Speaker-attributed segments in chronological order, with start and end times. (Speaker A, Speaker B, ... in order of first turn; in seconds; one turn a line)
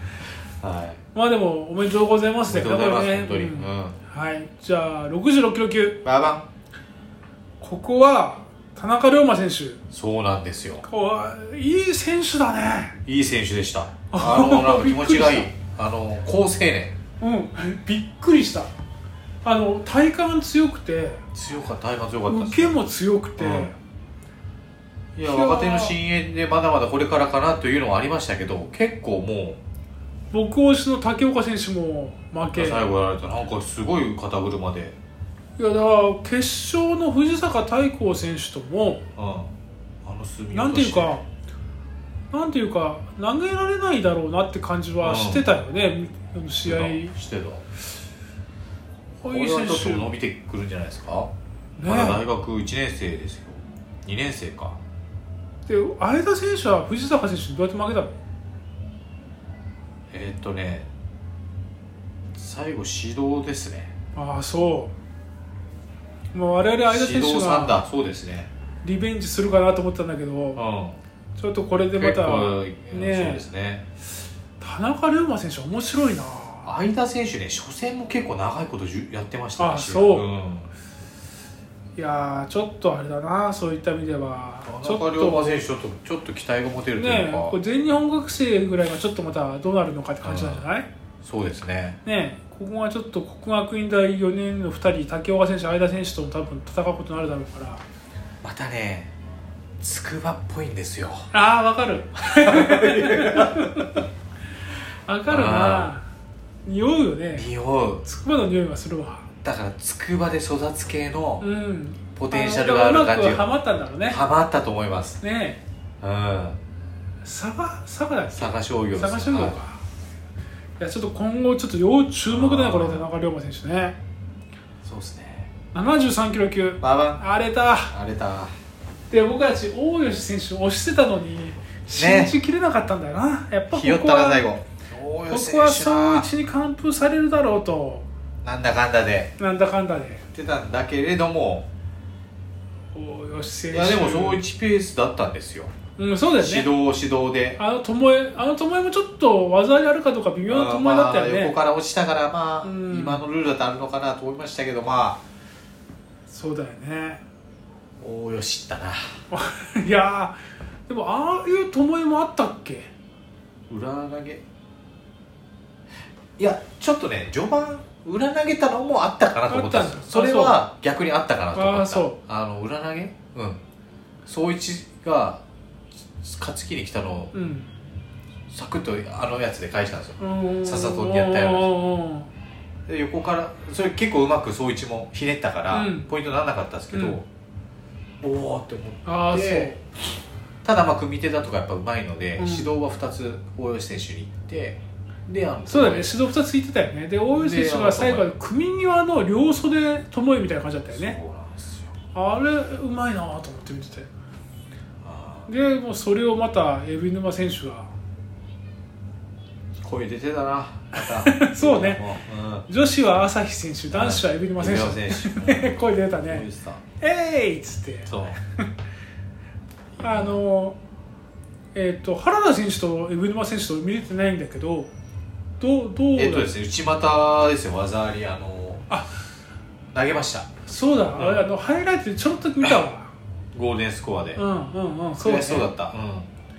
Speaker A: 0.6-1.0
Speaker B: 1.1-6.0
Speaker A: 2.5-4.0
Speaker A: 6.0-6.5
Speaker B: 7.6-9.8
Speaker A: 9.9-10.8
Speaker B: 10.8-13.0
Speaker A: 13.1-17.0
Speaker B: 14.1-15.5
Speaker B: 17.2-18.7
Speaker B: 19.4-21.2
Speaker A: 21.3-22.8
Speaker B: 22.3-23.7
Speaker A: 23.4-23.7
Speaker A: 25.1-29.6
Speaker B: 25.2-25.9
Speaker B: 30.3-32.9
Speaker A: 32.5-35.0
Speaker B: 35.6-39.0
Speaker A: 39.2-39.5
Speaker A: 40.0-41.2
Speaker B: 40.5-41.2
Speaker B: 42.3-47.1
Speaker A: 45.0-45.5
Speaker A: 46.6-47.6
Speaker B: 49.2-50.1
Speaker A: 49.2-51.3
Speaker B: 51.8-52.2
Speaker A: 51.9-54.8
Speaker B: 55.7-58.1
Speaker A: 60.1-60.9
Speaker A: 62.3-63.9
Speaker B: 64.1-64.9
Speaker B: 66.3-67.8
Speaker A: 66.8-68.5
Speaker B: 68.8-70.6
Speaker A: 70.5-71.0
Speaker B: 71.4-73.5
Speaker A: 71.9-73.9
Speaker B: 74.6-76.7
Speaker A: 76.6-80.7
Speaker B: 79.6-80.3
Speaker B: 82.0-85.6
Speaker A: 84.6-87.6
Speaker B: 86.9-90.9
Speaker A: 90.2-90.6
Speaker A: 91.2-92.0
Speaker B: 92.0-97.8
Speaker A: 98.4-99.1
Speaker A: 99.8-101.3
Speaker B: 101.3-104.0
Speaker A: 102.3-103.8
Speaker B: 105.0-106.0
Speaker A: 105.3-105.9
Speaker B: 106.7-107.5
Speaker A: 107.3-108.0
Speaker B: 108.0-109.2
Speaker A: 109.4-111.5
Speaker B: 111.4-114.2
Speaker A: 112.2-113.4
Speaker A: 114.1-115.2
Speaker B: 115.2-115.6
Speaker A: 116.0-116.6
Speaker B: 117.2-119.8
Speaker A: 118.3-119.5
Speaker B: 120.8-124.0
Speaker A: 122.3-123.1
Speaker A: 124.8-125.5
Speaker B: 125.7-127.9
Speaker A: 126.8-127.2
Speaker A: 127.9-128.5
Speaker B: 129.1-134.5
Speaker A: 131.9-132.3
Speaker A: 133.7-136.3
Speaker B: 135.3-138.1
Speaker A: 138.4-139.3
Speaker B: 139.4-140.2
Speaker A: 140.3-141.7
Speaker B: 142.9-144.4
Speaker A: 143.7-145.7
Speaker B: 146.0-146.7
Speaker A: 146.4-147.6
Speaker B: 147.6-151.5
Speaker A: 150.5-155.2
Speaker B: 152.6-153.2
Speaker B: 156.3-157.2
Speaker A: 158.0-159.1
Speaker B: 159.3-162.9
Speaker A: 163.7-164.4
Speaker A: 166.4-173.6
Speaker B: 169.5-170.6
Speaker B: 171.5-172.2
Speaker A: 174.2-175.4
Speaker A: 176.2-177.3
Speaker B: 177.3-177.7
Speaker A: 178.5-181.7
Speaker B: 180.2-182.3
Speaker A: 182.9-187.2
Speaker B: 185.7-186.1
Speaker B: 186.9-187.2
Speaker A: 188.2-189.7
Speaker B: 189.0-189.8
Speaker A: 190.6-196.2
Speaker B: 192.4-192.7
Speaker B: 195.7-201.2
Speaker A: 197.3-198.3
Speaker A: 200.9-201.9
Speaker B: 202.1-204.1
Speaker A: 205.0-205.5
Speaker B: 205.5-207.9
Speaker A: 209.8-212.7
Speaker B: 210.9-212.0
Speaker B: 212.7-216.5
Speaker A: 213.9-216.8
Speaker B: 217.0-218.6
Speaker A: 218.1-218.4
Speaker A: 219.9-220.4
Speaker B: 220.0-220.8
Speaker B: 221.7-224.9
Speaker B: 225.6-226.5
Speaker A: 226.1-228.9
Speaker A: 229.9-230.5
Speaker B: 230.7-233.1
Speaker A: 231.1-231.5
Speaker A: 233.5-234.4
Speaker B: 234.3-235.7
Speaker A: 235.2-236.3